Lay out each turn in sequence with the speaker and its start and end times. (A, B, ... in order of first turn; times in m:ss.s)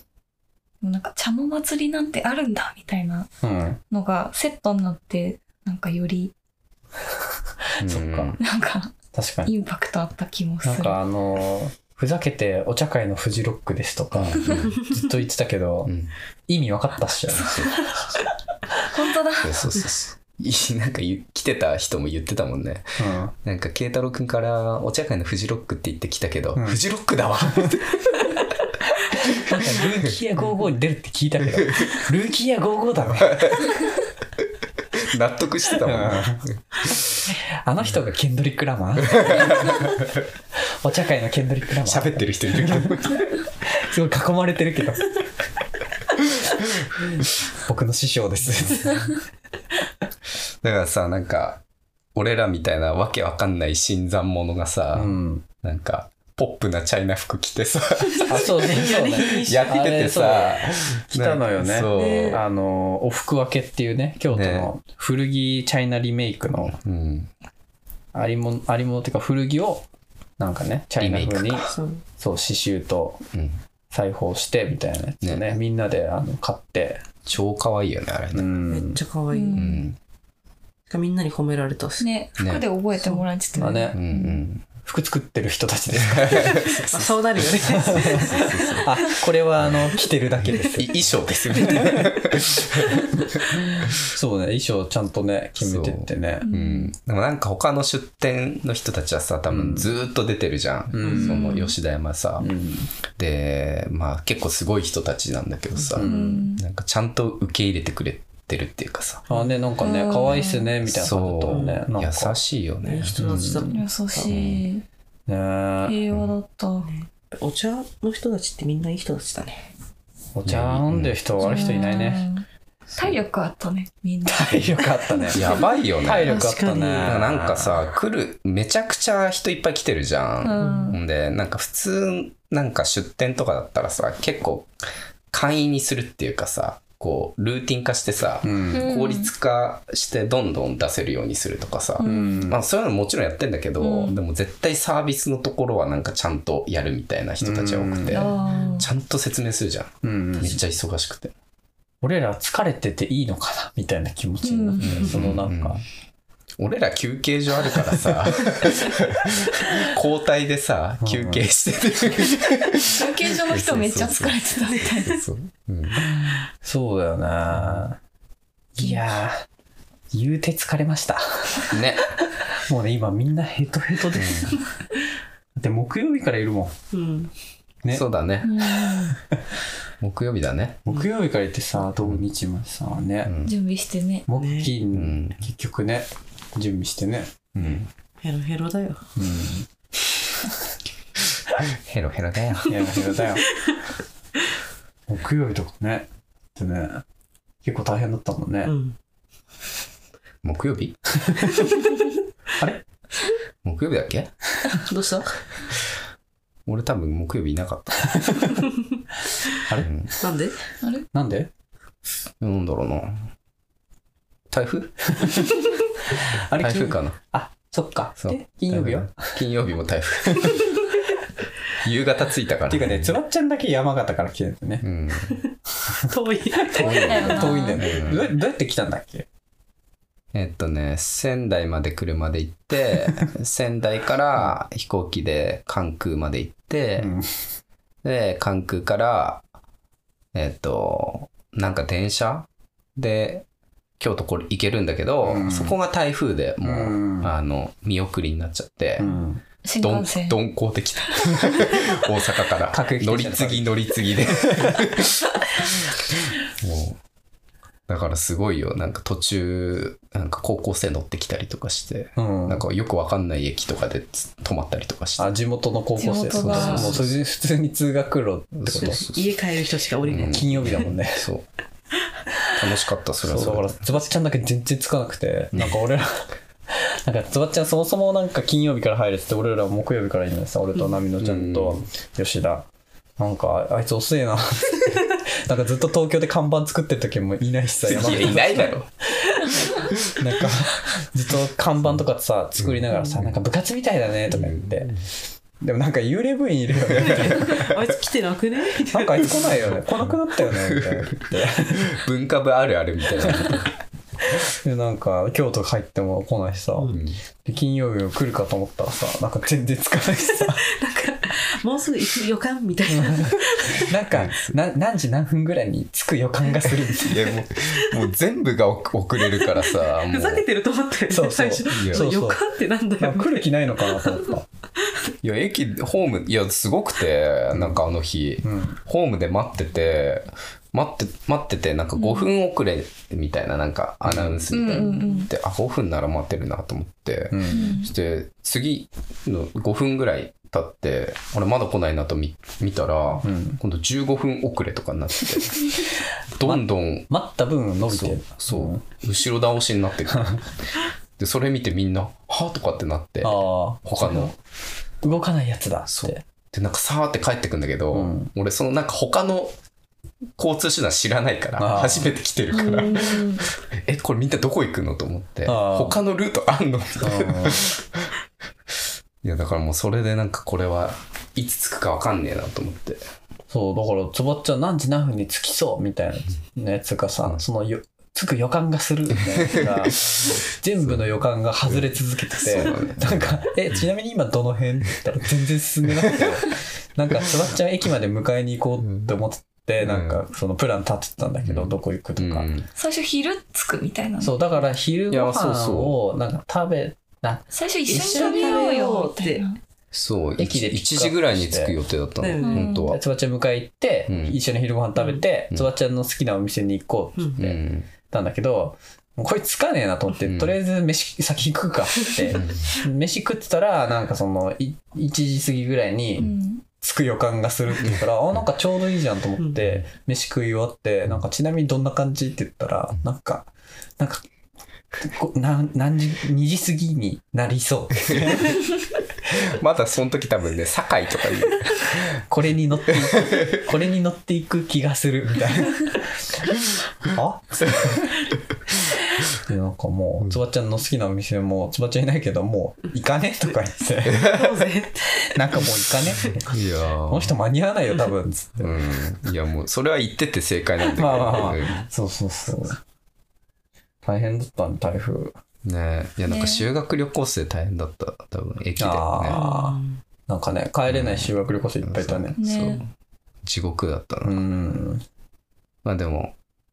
0:00.8-0:03.3 A
0:03.4-0:03.8 B
0:03.9-0:06.3 A
0:07.8-0:08.4 C
0:07.8-0:08.4 B
0:08.4-0:11.0 A
0:09.1-0:09.5 B
0:10.6-0:15.9 B
0:14.1-0:14.7 C
0:15.8-0:16.1 C
0:16.5-0:17.7 B
0:17.4-0:17.7 C
0:18.9-0:19.8 A
0:19.4-0:28.4 C
0:23.0-0:23.3 B
0:26.6-0:26.8 B
0:27.4-0:27.8 B
0:29.1-0:33.6 B
0:29.5-0:30.1 C
0:31.6-0:32.0 C
0:33.2-0:33.8 C
0:34.9-0:37.2 C
0:35.8-0:36.5 B
0:37.4-0:39.9 B
0:39.1-0:39.9 C
0:40.8-0:43.1 B
0:41.8-0:43.3 C
0:43.6-0:45.1 B
0:47.5-0:49.1 B
0:50.6-0:51.6 C
0:52.1-1:02.4 C
0:54.9-0:55.4 B
0:58.2-1:06.8 B
0:58.4-0:59.7 D
1:01.9-1:02.4 D
1:04.3-1:04.7 C
1:06.6-1:07.3 C
1:08.1-1:09.8 B
1:10.4-1:13.2 B
1:11.0-1:11.7 C
1:11.7-1:12.0 D
1:13.3-1:13.6 C
1:13.9-1:17.0 B
1:15.2-1:15.6 C
1:17.2-1:18.5 C
1:18.3-1:19.0 B
1:18.7-1:19.8 D
1:19.3-1:19.8 A
1:19.5-1:20.0 C
1:20.9-1:22.1 D
1:22.0-1:24.4 A
1:22.4-1:22.7 C
1:23.0-1:23.8 D
1:23.6-1:24.0 B
1:23.9-1:24.7 C
1:24.8-1:26.7 B
1:26.0-1:29.0 C
1:26.4-1:28.8 D
1:27.8-1:32.1 B
1:29.6-1:33.0 C
1:33.6-1:36.4 B
1:35.6-1:42.5 C
1:36.4-1:36.9 A
1:39.5-1:39.9 B
1:40.9-1:41.5 B
1:41.0-1:41.7 A
1:42.4-1:42.9 B
1:43.2-1:49.2 C
1:45.8-1:46.1 D
1:45.9-1:46.5 B
1:46.0-1:46.6 A
1:49.3-1:52.4 B
1:49.8-1:50.7 A
1:50.8-1:53.2 C
1:51.5-1:51.8 D
1:52.8-1:54.4 D
1:53.2-1:53.8 B
1:53.7-1:54.8 A
1:54.2-1:54.7 C
1:55.3-1:56.0 B
1:55.8-1:56.9 A
1:56.8-1:59.7 D
2:00.3-2:02.3 B
2:00.4-2:01.2 C
2:01.4-2:02.4 A
2:02.9-2:03.2 C
2:03.0-2:05.4 A
2:04.2-2:07.8 B
2:05.3-2:06.4 C
2:06.2-2:07.2 D
2:07.0-2:14.7 C
2:10.4-2:11.0 A
2:10.6-2:11.0 D
2:15.3-2:31.3 C
2:18.4-2:18.8 B
2:18.7-2:19.3 A
2:22.0-2:22.5 A
2:22.0-2:22.6 B
2:23.8-2:24.2 A
2:27.4-2:28.3 B
2:28.1-2:28.9 A
2:28.4-2:28.8 D
2:30.0-2:30.6 B
2:32.0-2:35.8 B
2:34.4-2:35.0 A
2:34.8-2:35.8 C
2:36.6-2:46.0 C
2:41.0-2:41.5 B
2:42.8-2:45.2 A
2:44.6-2:45.2 D
2:46.0-2:48.0 B
2:47.5-2:47.8 C
2:48.7-2:49.4 B
2:50.1-2:51.8 B
2:51.7-2:52.1 C
2:52.6-2:54.6 B
2:54.1-2:54.5 C
2:55.6-2:56.7 B
2:56.9-2:57.3 D
2:57.9-2:58.9 C
2:58.4-2:59.2 A
3:00.0-3:00.8 C
3:00.8-3:03.3 B
3:03.2-3:03.5 C
3:03.4-3:04.2 A
3:04.2-3:07.3 B
3:04.4-3:04.7 D
3:04.9-3:05.4 C
3:07.5-3:07.9 C
3:08.2-3:09.0 D
3:09.2-3:09.7 B
3:11.6-3:13.0 C
3:12.6-3:13.5 B
3:15.1-3:17.0 B
3:17.6-3:18.7 B
3:18.6-3:18.9 D
3:20.4-3:21.0 C
3:21.2-3:21.7 B
3:22.6-3:22.8 B
3:23.6-3:24.3 C
3:24.8-3:25.4 D
3:26.6-3:28.5 C
3:28.2-3:28.5 B
3:29.6-3:30.2 B
3:29.8-3:30.1 C
3:30.2-3:30.6 D
3:31.1-3:31.5 B
3:32.4-3:33.3 C
3:34.5-3:35.5 C
3:35.2-3:35.6 B
3:36.1-3:39.4 B
3:36.5-3:37.2 C
3:38.2-3:40.8 C
3:40.3-3:40.6 B
3:41.7-3:43.1 C
3:42.7-3:44.8 B
3:44.8-3:45.4 C
3:45.3-3:45.5 D
3:46.1-3:47.6 D
3:46.6-3:49.2 B
3:46.8-3:48.3 C
3:46.8-3:47.8 A
3:50.3-3:57.1 C
3:57.0-3:57.3 B
3:58.0-3:59.4 C
4:00.3-4:03.4 C
4:04.0-4:09.1 C
4:05.2-4:05.8 B
4:06.6-4:07.3 B
4:09.0-4:09.4 B
4:09.6-4:10.4 A
4:09.8-4:15.2 C
4:12.7-4:14.9 B
4:16.6-4:17.0 C
4:17.9-4:25.3 C
4:22.2-4:22.6 B
4:25.2-4:29.0 B
4:26.0-4:27.0 A
4:26.3-4:27.1 C
4:26.4-4:27.0 D
4:28.6-4:29.4 C
4:28.7-4:30.9 D
4:30.0-4:31.4 C
4:30.1-4:31.3 B
4:32.5-4:33.8 C
4:33.2-4:49.3 B
4:41.2-4:41.8 C
4:47.8-4:48.9 C
4:50.1-4:55.0 B
4:52.6-4:53.3 C
4:54.3-4:55.0 C
4:55.6-4:57.7 B
4:57.0-4:57.6 C
4:57.0-4:59.3 D
4:58.9-5:02.0 B
5:00.0-5:03.7 C
5:03.2-5:03.6 B
5:04.3-5:10.6 B
5:06.9-5:07.2 C
5:10.6-5:13.9 D
5:12.9-5:17.3 B
5:14.1-5:14.6 C
5:17.0-5:20.4 C
5:19.2-5:24.3 D
5:21.1-5:22.4 B
5:21.7-5:22.1 C
5:23.0-5:24.4 B
5:25.2-5:45.7 C
5:27.5-5:27.8 B
5:28.4-5:28.8 B
5:32.0-5:32.3 A
5:34.0-5:34.4 B
5:34.5-5:35.3 A
5:37.3-5:37.8 B
5:37.5-5:37.9 A
5:43.2-5:43.6 B
5:46.4-5:47.1 C
5:46.4-5:48.8 B
5:47.9-5:50.5 C
5:50.1-5:50.4 B
5:51.2-5:54.3 C
5:53.2-5:54.3 B
5:55.0-5:56.2 B
5:55.9-5:59.6 C
5:57.9-5:58.3 B
6:00.4-6:08.1 C
6:01.6-6:02.1 B
6:02.5-6:03.4 A
6:05.4-6:06.0 B
6:07.0-6:07.7 B
6:09.2-6:13.0 C
6:13.5-6:32.5 B
6:19.4-6:20.2 C
6:22.4-6:23.4 C
6:26.0-6:26.4 C
6:29.8-6:30.2 C
6:31.4-6:32.7 C
6:32.8-6:34.3 A
6:34.2-6:38.8 B
6:35.1-6:35.9 C
6:37.5-6:39.6 A
6:37.9-6:39.4 D
6:39.9-6:43.0 C
6:40.4-6:41.8 B
6:42.2-6:42.8 D
6:42.4-6:42.9 A
6:42.9-6:56.3 B
6:44.1-6:44.4 C
6:47.4-6:47.9 C
6:50.2-6:50.6 C
6:52.3-6:52.7 C
6:56.2-6:56.6 A
6:56.8-7:04.2 B
7:05.0-7:08.6 B
7:08.0-7:08.4 C
7:09.3-7:12.1 C
7:12.0-7:18.2 B
7:13.2-7:13.5 C
7:19.3-7:24.4 B
7:24.2-7:25.6 D
7:25.2-7:26.5 B
7:26.5-7:27.3 C
7:27.0-7:28.8 B
7:28.6-7:31.9 C
7:30.9-7:32.8 B
7:34.0-7:35.4 B
7:35.6-7:39.4 C
7:36.3-7:36.6 A
7:38.8-7:42.4 B
7:39.3-7:40.0 D
7:40.9-7:42.9 C
7:42.4-7:42.8 A
7:43.4-7:44.4 C
7:44.2-7:45.0 B
7:45.8-7:46.3 C